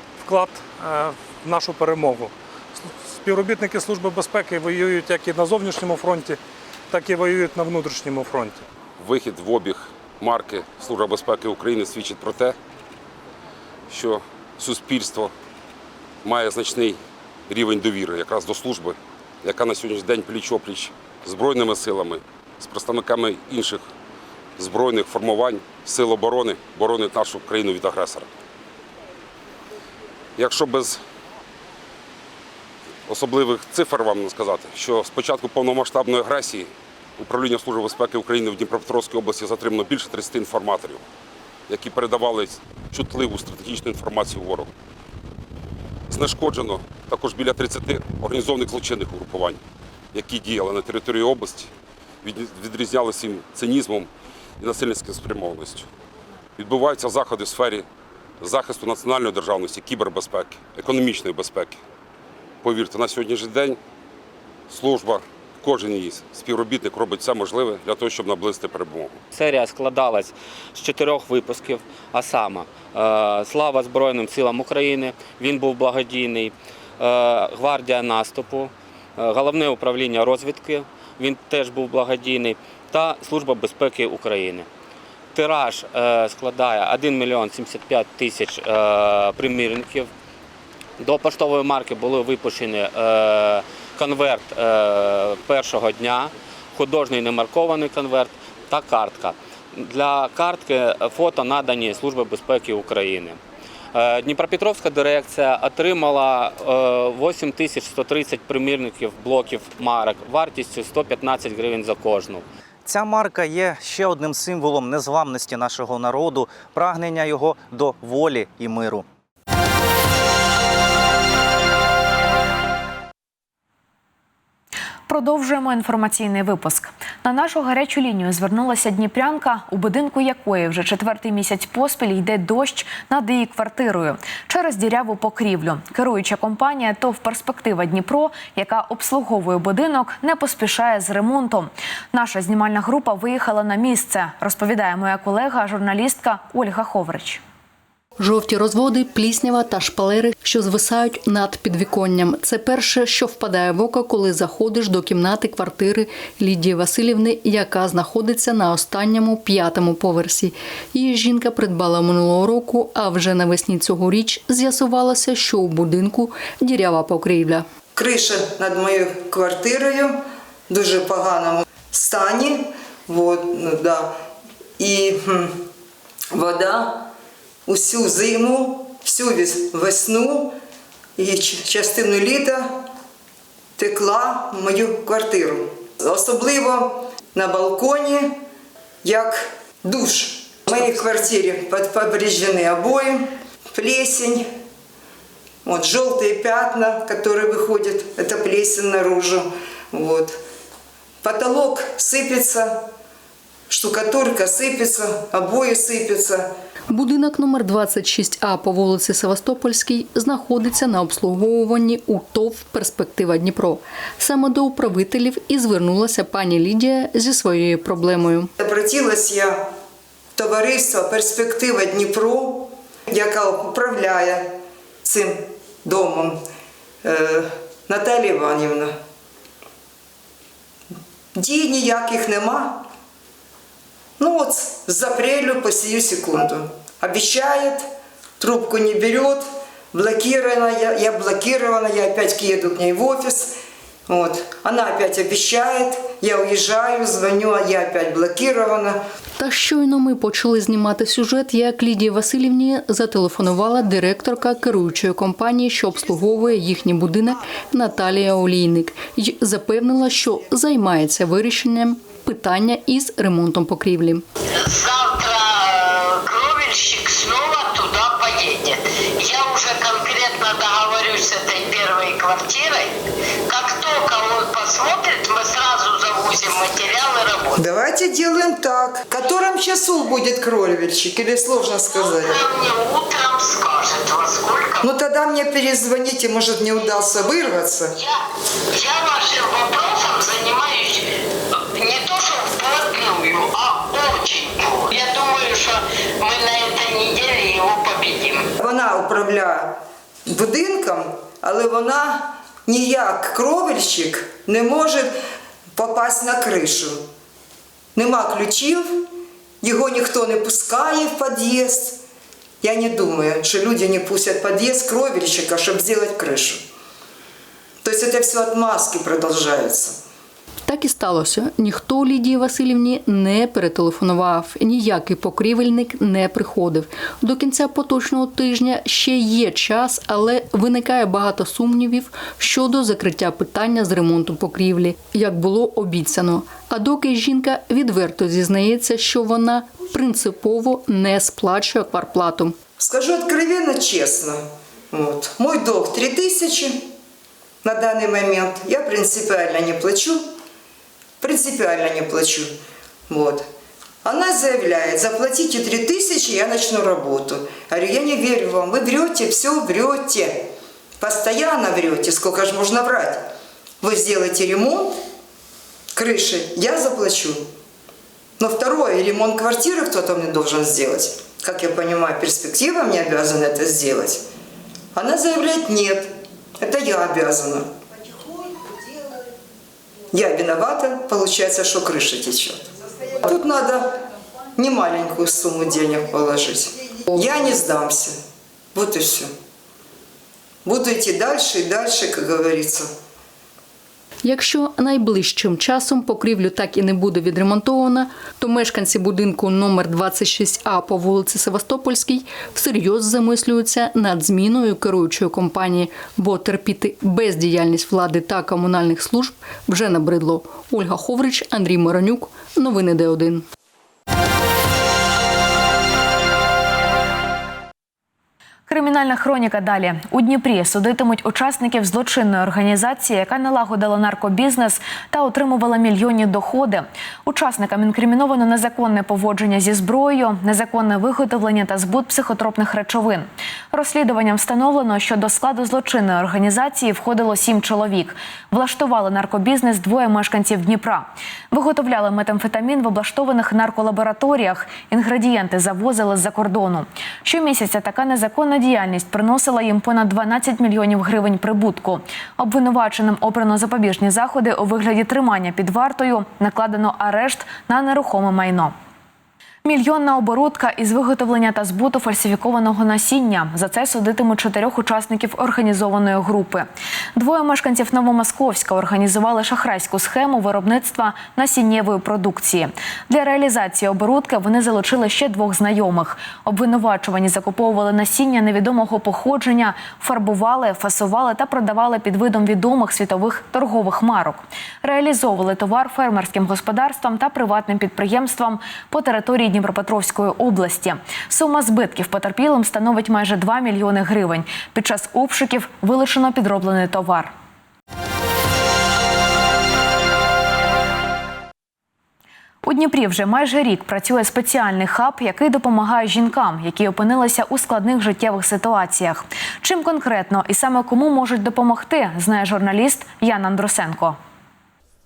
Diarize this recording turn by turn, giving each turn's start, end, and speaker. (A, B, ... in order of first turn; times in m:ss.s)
0:00.2-0:06.4 A
0:06.9-0:08.6 A
0:09.0-0:12.6 B
0:13.9-0:15.3 B
0:16.2-0:23.9 B
0:24.6-0:28.3 B
0:30.4-0:31.0 B
0:33.1-0:41.0 B
0:41.7-0:44.7 B
0:46.1-0:49.6 B
0:50.1-0:51.7 B
0:52.2-0:55.9 B
0:56.6-0:57.8 B
0:58.4-1:01.8 B
1:02.6-1:03.8 B
1:04.7-1:09.2 B
1:09.3-1:24.7 C
1:25.3-1:30.1 C
1:31.0-1:43.4 C
1:43.9-1:52.4 C
1:52.8-1:59.0 D
2:05.1-2:27.4 E
2:28.2-2:47.6 F
2:47.9-2:54.2 G
2:54.8-2:55.6 G
2:56.3-2:57.1 G
2:57.6-3:00.6 G
3:01.2-3:02.7 G
3:03.8-3:08.4 G
3:09.0-3:14.4 G
3:15.6-3:20.4 G
3:21.2-3:22.8 G
3:23.7-3:26.5 G
3:26.9-3:38.5 F
3:38.6-3:39.6 G
3:40.4-3:44.5 G
3:45.0-3:46.4 G
3:47.0-3:48.9 G
3:51.3-3:52.8 G
3:54.2-3:57.8 G
3:58.4-4:03.5 G
4:04.1-4:09.0 G
4:09.4-4:24.2 F
4:24.6-4:32.9 H
4:33.5-4:37.6 H
4:37.6-4:42.4 G
4:41.9-4:44.9 H
4:44.8-4:47.9 G
4:48.7-4:51.0 H
4:51.7-4:58.5 H
4:58.6-5:05.1 G
5:05.8-5:07.0 G
5:07.9-5:09.1 G
5:09.6-5:12.0 G
5:12.6-5:16.6 G
5:17.8-5:20.0 G
5:20.6-5:42.5 F
5:42.8-5:46.8 G
5:47.6-5:50.2 G
5:51.2-5:52.5 G
5:53.1-5:53.5 G
5:54.0-6:00.4 G
6:01.0-6:03.2 G
6:03.8-6:04.9 G
6:05.9-6:07.4 G
6:08.4-6:14.2 G
6:14.9-6:17.7 G
6:20.1-6:24.0 G
6:24.6-6:28.2 G
6:28.7-6:29.3 G
6:30.6-6:32.9 G
6:34.2-6:53.4 F
6:58.7-7:38.7 E
7:39.6-8:17.3 E
8:22.6-8:34.2 E